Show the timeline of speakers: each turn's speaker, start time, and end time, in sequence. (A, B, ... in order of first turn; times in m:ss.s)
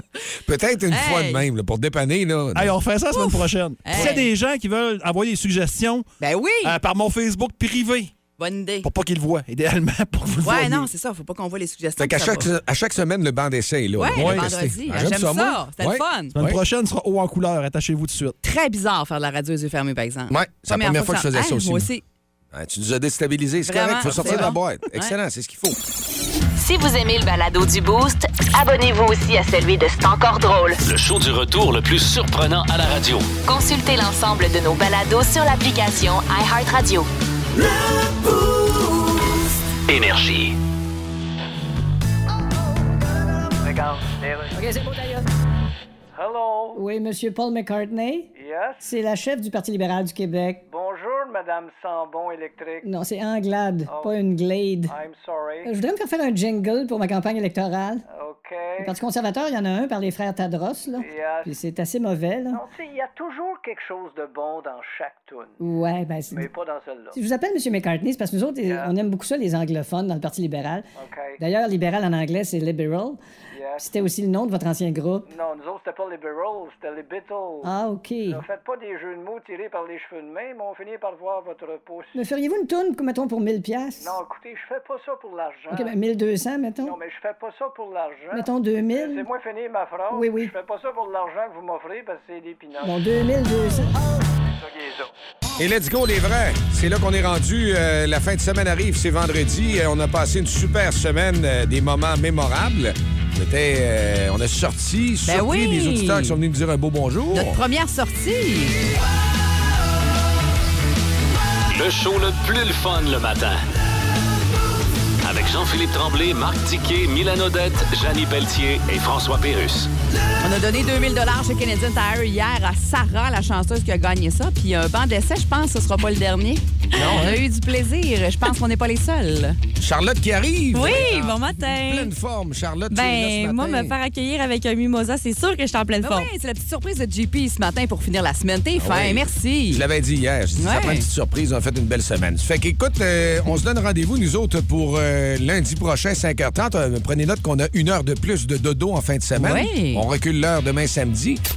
0:00.4-0:02.7 A
0:00.9-0:01.4 B
0:02.5-0:06.1 C
0:03.1-0:04.3 B
0:03.9-0:04.2 A
0:06.2-0:06.8 B
0:06.6-0:08.1 C
0:08.4-0:08.9 B
0:08.8-0:10.9 C
0:10.4-0:12.5 B
0:12.0-0:16.6 A
0:14.0-0:16.3 B
0:14.1-0:14.5 C
0:16.3-0:18.4 C
0:18.4-0:22.0 B
0:20.3-0:21.9 A
0:22.5-0:25.8 A
0:23.6-0:25.1 B
0:26.6-0:30.8 D
0:30.8-0:33.3 E
0:33.4-0:37.1 D
0:39.9-0:40.6 E
0:43.6-0:44.6 F
0:44.5-0:45.2 G
0:46.1-0:46.8 F
0:46.7-0:48.3 G
0:48.3-0:48.8 F
0:48.8-0:50.6 G
0:50.7-0:52.9 F
0:52.8-0:54.9 G
0:53.9-0:54.2 F
0:54.9-0:55.7 F
0:55.6-0:58.0 G
0:58.1-0:59.0 F
0:58.8-1:02.6 G
1:00.9-1:01.6 F
1:02.5-1:05.6 F
1:05.6-1:06.5 G
1:06.3-1:07.2 F
1:07.1-1:10.8 G
1:08.6-1:08.9 F
1:11.0-1:11.4 F
1:11.4-1:13.2 G
1:13.5-1:13.9 F
1:13.8-1:15.2 G
1:15.3-1:17.7 F
1:17.6-1:18.4 G
1:18.2-1:22.1 F
1:22.1-1:24.1 G
1:24.0-1:26.0 F
1:25.7-1:27.0 G
1:26.8-1:33.0 F
1:28.3-1:29.2 G
1:30.1-1:30.5 G
1:32.8-1:33.9 G
1:34.4-1:35.1 F
1:35.6-1:47.6 A
1:45.2-1:46.4 B
1:47.3-1:48.8 B
1:51.7-1:53.6 E
1:55.2-1:59.9 E
2:00.4-2:09.6 B
2:06.9-2:07.4 A
2:09.8-2:14.0 A
2:10.7-2:11.9 H
2:10.9-2:11.8 B
2:12.9-2:16.2 H
2:16.0-2:19.8 B
2:18.8-2:31.4 A
2:20.6-2:21.0 B
2:29.4-2:30.0 B